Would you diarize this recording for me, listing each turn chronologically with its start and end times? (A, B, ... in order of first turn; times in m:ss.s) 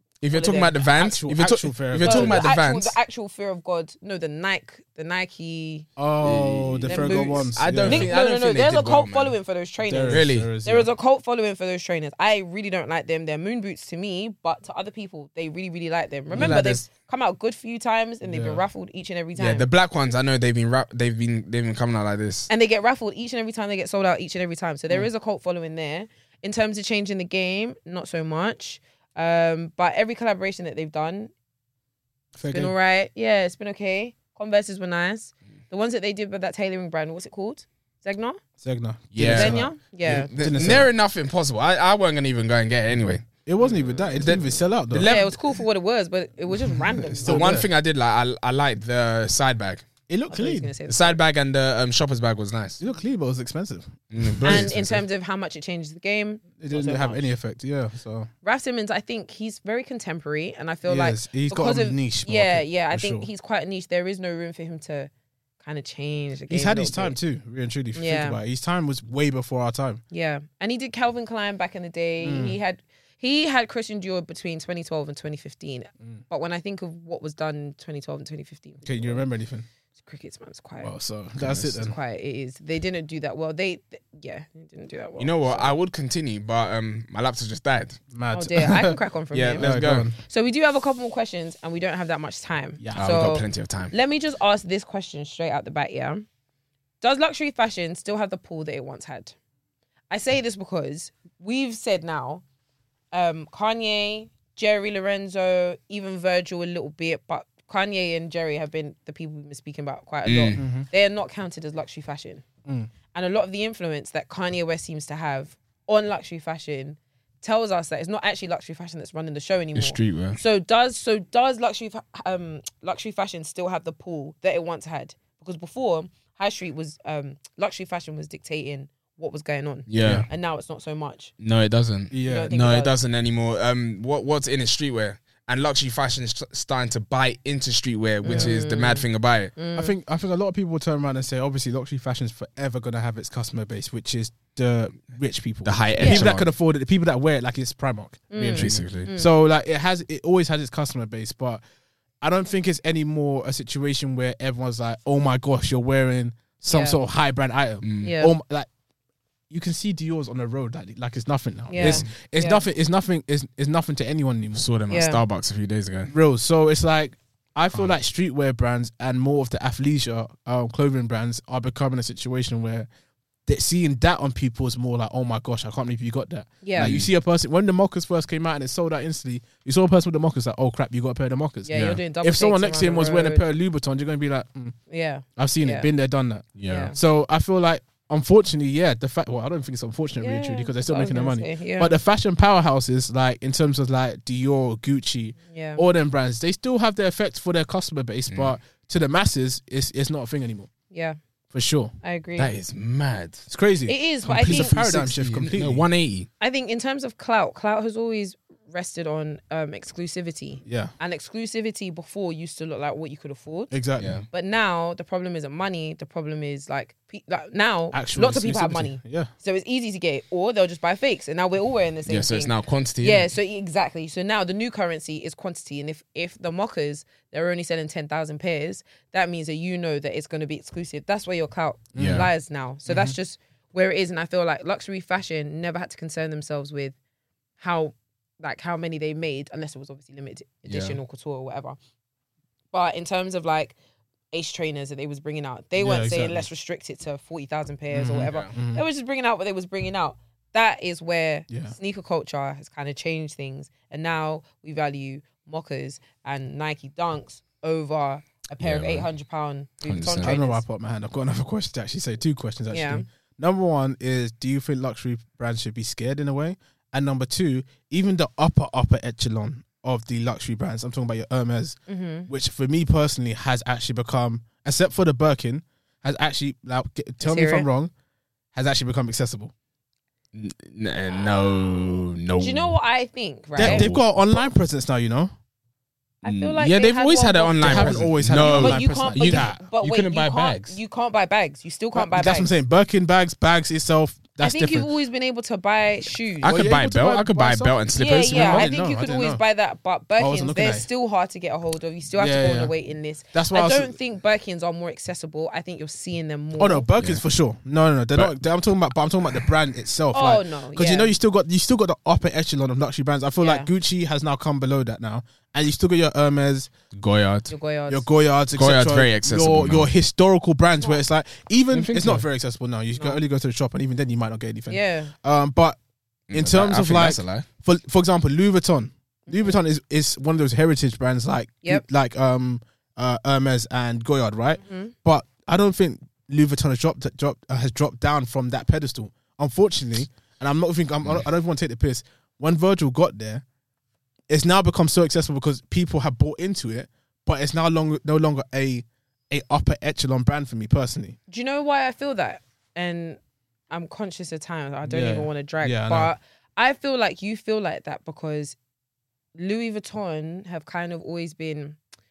0:00.2-0:03.0 A
0:00.3-0:00.8 B
0:00.9-0:02.4 C
0:02.0-0:05.9 B
0:06.0-0:08.2 C
0:06.2-0:09.3 A
0:06.9-0:19.7 B
0:09.9-0:10.9 C
0:10.1-0:10.5 A
0:16.3-0:16.6 C
0:16.3-0:16.8 A
0:18.2-0:18.6 C
0:19.4-0:22.5 A
0:22.5-0:31.3 B
0:32.3-0:32.7 C
0:32.5-0:38.4 B
0:38.6-0:40.9 C
0:39.1-0:45.4 A
0:39.2-0:40.3 B
0:43.0-0:45.1 C
0:45.0-0:47.5 B
0:46.6-0:47.7 C
0:47.2-0:49.9 A
0:50.1-0:50.7 C
0:50.3-0:51.2 B
0:50.9-0:52.8 A
0:52.8-0:54.7 C
0:54.1-0:55.0 A
0:54.4-0:57.3 B
0:56.6-0:58.3 C
0:58.4-1:05.1 B
1:00.9-1:03.3 C
1:05.6-1:07.2 B
1:06.5-1:10.0 C
1:07.9-1:08.4 B
1:10.1-1:19.2 B
1:12.2-1:12.6 C
1:18.8-1:19.6 C
1:20.0-1:20.9 B
1:20.8-1:21.9 C
1:21.4-1:21.7 A
1:21.7-1:25.7 B
1:25.2-1:28.0 A
1:28.1-1:29.0 C
1:28.3-1:36.2 B
1:29.3-1:30.1 A
1:29.6-1:30.1 C
1:32.8-1:33.3 C
1:33.0-1:33.9 A
1:37.0-1:39.4 B
1:40.1-1:42.4 B
1:43.1-1:52.4 B
1:50.2-1:50.6 A
1:50.6-1:50.9 C
1:53.1-2:11.3 B
1:59.7-2:00.4 A
2:09.9-2:10.3 A
2:10.0-2:10.3 C
2:11.4-2:19.5 A
2:12.1-2:12.5 C
2:12.2-2:13.0 B
2:18.2-2:19.9 B
2:18.3-2:18.5 C
2:19.7-2:31.6 C
2:25.6-2:26.4 A
2:26.0-2:26.3 B
2:28.3-2:29.3 B
2:28.5-2:29.1 A
2:32.2-2:38.7 C
2:36.7-2:37.0 B
2:37.8-2:38.1 A
2:38.0-2:38.3 B
2:39.5-2:44.6 C
2:41.7-2:42.6 B
2:41.7-2:42.1 A
2:44.5-2:46.1 A
2:44.9-2:45.2 B
2:46.1-2:52.9 C
2:53.4-3:04.8 C
2:56.6-2:56.9 B
2:56.8-2:57.1 A
3:01.6-3:03.4 B
3:01.7-3:02.0 A
3:04.9-3:05.9 B
3:05.4-3:20.7 C
3:06.6-3:06.9 A
3:06.7-3:07.0 B
3:10.2-3:11.9 B
3:15.5-3:15.8 B
3:18.3-3:18.5 A
3:20.9-3:21.2 B
3:21.5-3:21.9 C
3:22.0-3:22.5 B
3:22.4-3:23.5 A
3:23.5-3:25.8 C
3:23.9-3:24.8 B
3:24.4-3:26.3 A
3:26.4-3:33.7 B
3:30.6-3:30.9 C
3:33.7-3:34.2 C
3:34.0-3:34.2 A
3:34.3-3:57.0 B
3:37.9-3:39.3 C
3:42.1-3:43.3 A
3:51.9-3:52.3 C
3:52.0-3:52.3 A
3:52.9-3:53.1 C
3:57.6-4:01.8 B
4:00.6-4:01.0 A
4:02.7-4:03.8 B
4:04.3-4:20.6 B
4:05.8-4:06.4 C
4:07.9-4:08.8 C
4:08.2-4:08.5 A
4:11.5-4:11.8 C
4:18.6-4:19.1 A
4:19.9-4:20.4 A
4:20.2-4:37.9 C
4:22.7-4:23.0 B
4:31.9-4:32.3 B
4:37.2-4:37.7 B
4:38.5-4:39.5 C
4:40.3-4:42.8 A
4:42.4-4:43.9 B
4:43.6-4:44.4 A
4:43.6-4:45.3 C
4:46.2-4:52.5 B
4:46.2-4:50.8 A
4:47.6-4:49.6 C
4:51.9-4:54.9 C
4:54.4-4:56.6 B
4:56.4-4:58.7 A
4:56.4-4:59.4 C
4:57.9-5:06.9 B
5:00.2-5:00.9 C
5:02.2-5:02.7 C
5:03.3-5:04.0 C
5:06.6-5:16.7 C
5:10.1-5:11.1 B
5:13.4-5:13.7 B
5:16.9-5:17.5 A
5:17.5-5:18.0 B
5:17.9-5:25.8 C
5:18.5-5:19.9 A
5:21.7-5:22.2 A
5:24.7-5:25.1 B
5:26.3-5:27.4 A
5:26.3-5:43.4 C
5:29.3-5:29.6 B
5:34.6-5:34.9 B
5:44.3-5:51.2 C
5:51.3-5:53.2 B
5:53.7-5:58.6 B
5:54.8-5:56.1 C
5:59.4-6:01.8 B